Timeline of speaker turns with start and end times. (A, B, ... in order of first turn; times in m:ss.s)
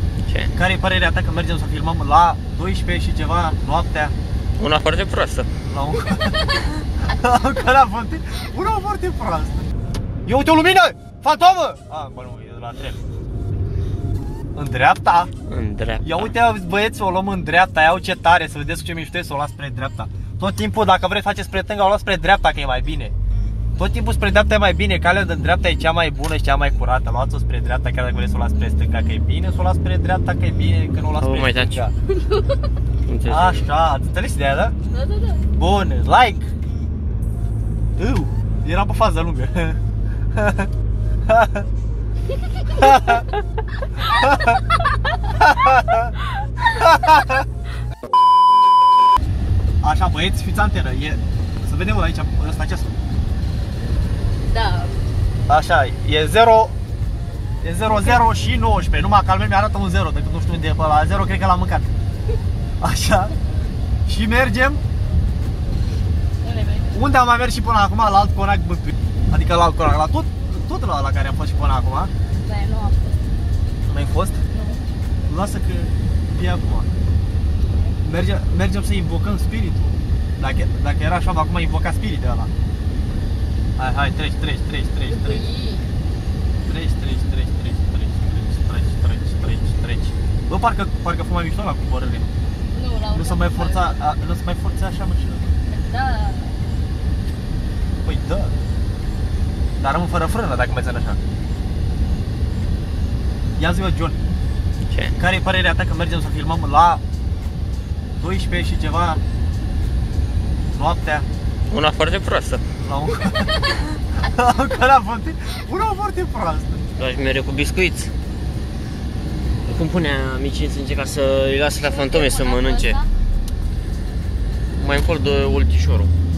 0:00.3-0:00.5 A
0:00.6-0:04.1 B
0:04.6-0:05.5 A
0:05.7-0:06.5 B
0:07.0-0:09.7 B
0:10.3-0:13.0 B
0:14.6-0:15.3 B
0:15.5-0:16.3 A
0:16.0-0:23.1 B
0:23.8-0:31.9 B
0:31.2-0:31.8 A
0:32.2-0:32.6 C
0:33.1-0:33.7 A
0:33.3-0:34.8 B
0:34.9-0:35.5 C
0:35.5-0:36.5 B
0:38.0-0:39.8 B
0:40.4-0:40.7 B
0:41.3-0:41.7 B
0:42.5-0:43.2 C
0:42.8-0:43.2 B
0:44.1-0:44.6 B
0:45.4-0:47.4 B
0:49.8-0:52.9 B
0:54.5-0:55.0 C
0:55.5-0:56.7 B
0:57.6-1:01.9 B
0:57.9-0:58.2 C
1:02.8-1:03.4 B
1:04.1-1:04.8 B
1:06.4-1:07.0 C
1:06.9-1:12.1 B
1:12.4-1:13.2 C
1:13.9-1:14.4 B
1:14.5-1:14.8 C
1:15.3-1:16.9 B
1:18.0-1:22.5 B
1:23.8-1:25.5 B
1:25.1-1:25.9 C
1:26.7-1:32.3 B
1:32.7-1:34.0 C
1:33.1-1:35.5 B
1:35.7-1:36.6 C
1:38.0-1:38.6 B
1:39.8-1:41.2 B
1:43.6-1:44.2 B
1:44.9-1:45.2 A
1:45.2-1:47.0 B
1:48.2-1:49.2 B
1:50.7-1:51.3 B
1:51.7-1:52.6 A
1:52.8-1:56.8 B
1:57.0-1:58.1 A
1:59.6-2:03.0 A
2:01.8-2:03.1 C
2:04.8-2:06.1 A